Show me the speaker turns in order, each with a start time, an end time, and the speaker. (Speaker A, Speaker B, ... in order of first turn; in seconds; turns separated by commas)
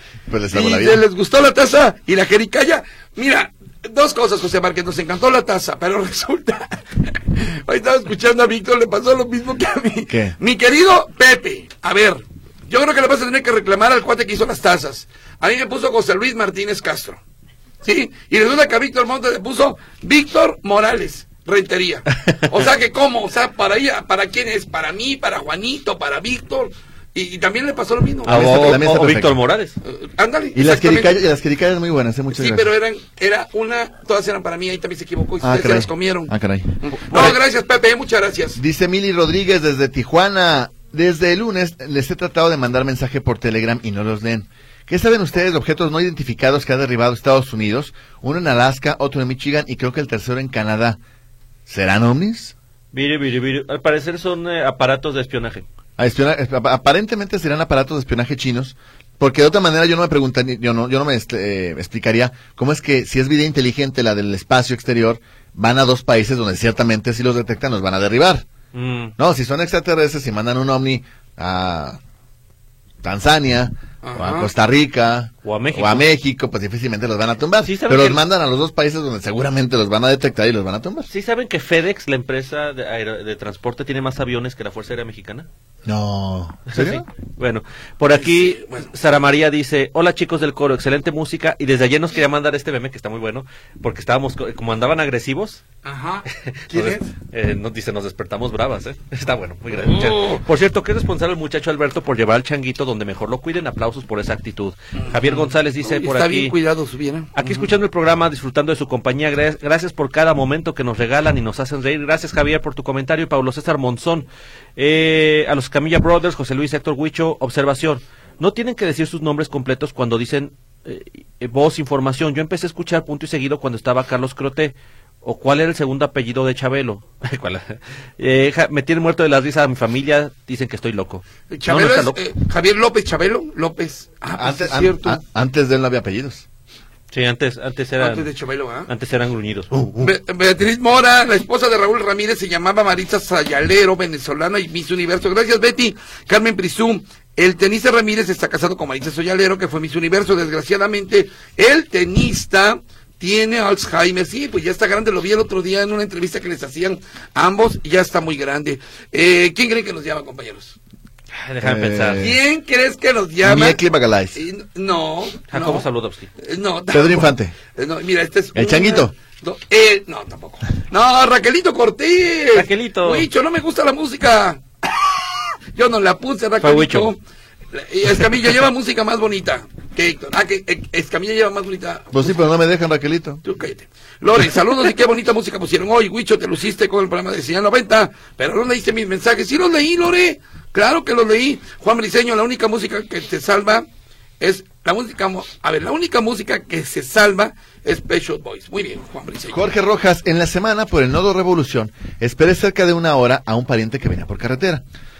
Speaker A: 0.3-1.0, Speaker B: 0.5-17.2, Speaker A: 10.1-10.3, Speaker B: 17.8-28.8, Speaker A: 28.2-29.4, Speaker C: 28.2-29.8, Speaker B: 29.8-31.1, Speaker A: 30.5-32.7, Speaker B: 32.3-38.6, Speaker A: 35.4-37.4, Speaker C: 37.1-37.4, Speaker A: 38.5-51.0, Speaker A: 51.7-52.5, Speaker C: 52.9-55.6, Speaker A: 56.0-68.5, Speaker C: 68.7-69.1, Speaker A: 69.2-72.0, Speaker A: 73.0-81.1, Speaker B: 74.0-74.5, Speaker C: 75.4-76.0, Speaker C: 77.6-78.2, Speaker C: 81.1-85.5, Speaker A: 85.8-87.0, Speaker C: 86.7-95.6, Speaker B: 88.1-88.9, Speaker B: 95.8-97.1, Speaker C: 96.3-106.5, Speaker B: 99.7-100.4, Speaker B: 105.0-107.7, Speaker C: 107.3-132.2, Speaker B: 131.5-135.2, Speaker A: 134.3-136.4, Speaker C: 137.1-138.3, Speaker B: 138.0-138.9, Speaker C: 138.9-140.1, Speaker B: 140.0-160.8, Speaker C: 161.3-162.3, Speaker A: 161.6-162.4, Speaker B: 162.2-163.8, Speaker A: 163.4-164.4, Speaker B: 164.3-165.8, Speaker C: 165.5-166.3, Speaker B: 166.4-177.2, Speaker A: 166.9-167.5, Speaker A: 168.5-169.1, Speaker C: 172.5-173.3, Speaker C: 176.6-177.1, Speaker B: 177.7-182.3, Speaker A: 182.1-183.4, Speaker B: 183.4-193.9, Speaker B: 194.4-199.7, Speaker A: 199.5-204.8